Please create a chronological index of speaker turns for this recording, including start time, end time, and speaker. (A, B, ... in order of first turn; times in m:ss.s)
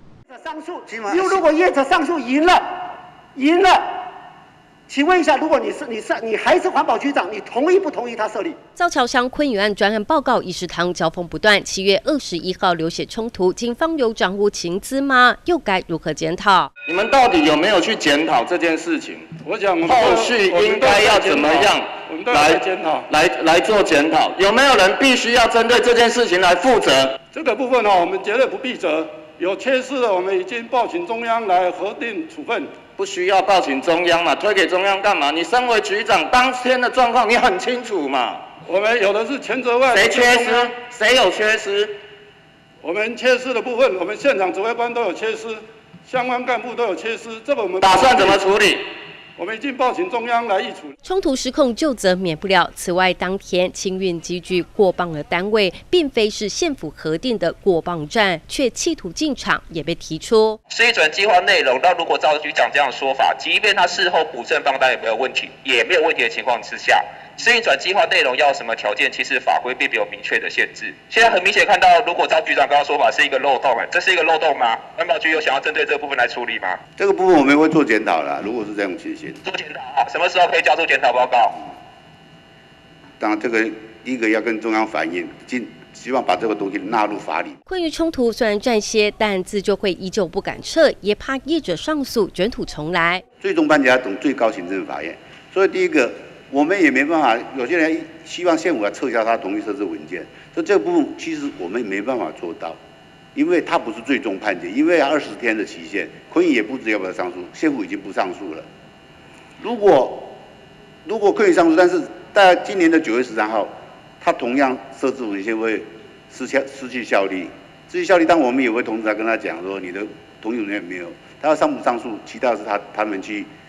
0:00.3-0:04.1 A
0:00.9-0:01.4 B
0:04.9-0:08.6 A
0:08.8-0:16.7 C
0:16.8-0:27.2 D
0:19.4-0:23.0 E
0:27.3-0:32.7 E
0:33.0-0:38.4 D
0:38.7-0:40.6 E
0:39.8-0:41.9 D
0:42.8-0:48.3 E
0:47.8-0:48.8 D
0:49.4-0:50.9 E
0:51.0-1:00.6 C
1:00.7-1:16.8 F
1:17.0-1:19.4 B
1:19.4-1:21.6 F
1:23.2-1:27.6 B
1:27.7-1:33.2 C
1:33.4-1:42.8 B
1:43.3-1:48.6 B
1:49.6-1:50.4 B
1:51.0-2:03.5 B